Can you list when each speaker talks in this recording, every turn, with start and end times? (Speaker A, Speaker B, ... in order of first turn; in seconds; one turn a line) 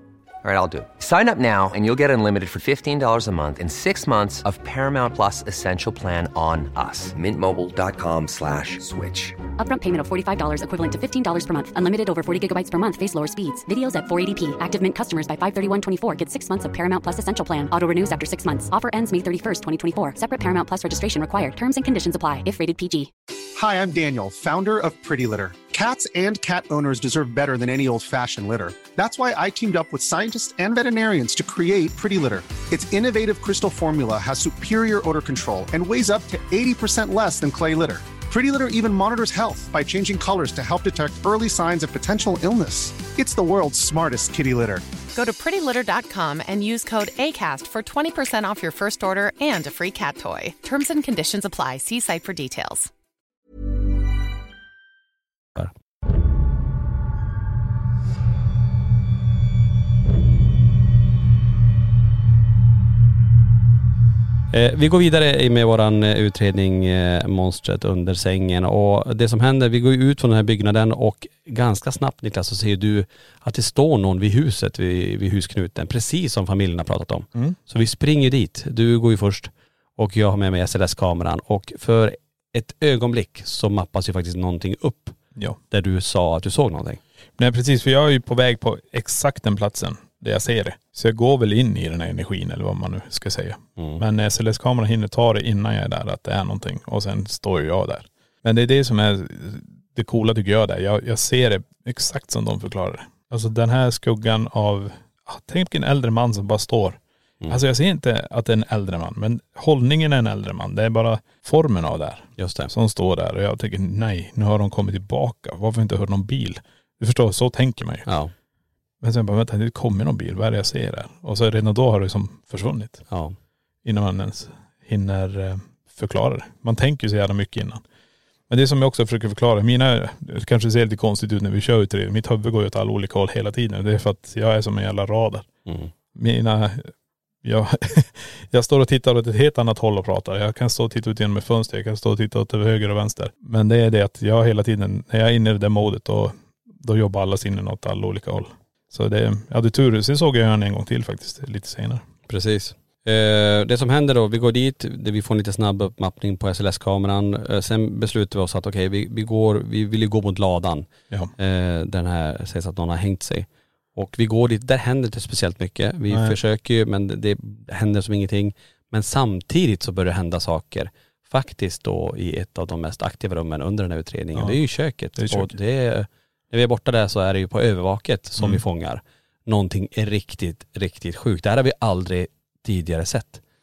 Speaker A: 0.4-9.4
Speaker B: 9.6-23.1
Speaker C: 23.6-44.8
Speaker D: 45.1-52.9
Speaker E: 64.5-85.2
Speaker E: 85.7-87.0
Speaker F: 87.4-118.1
Speaker E: 93.8-94.0
Speaker E: 112.4-112.7
Speaker E: 118.1-118.3
Speaker F: 119.0-123.1
Speaker E: 123.1-123.3
Speaker F: 123.8-127.8
Speaker F: 128.5-135.5
Speaker E: 135.7-135.9
Speaker F: 136.1-136.9
Speaker F: 137.4-152.0
Speaker E: 152.3-160.9
Speaker E: 161.4-183.4
Speaker F: 166.1-166.3
Speaker F: 175.2-175.5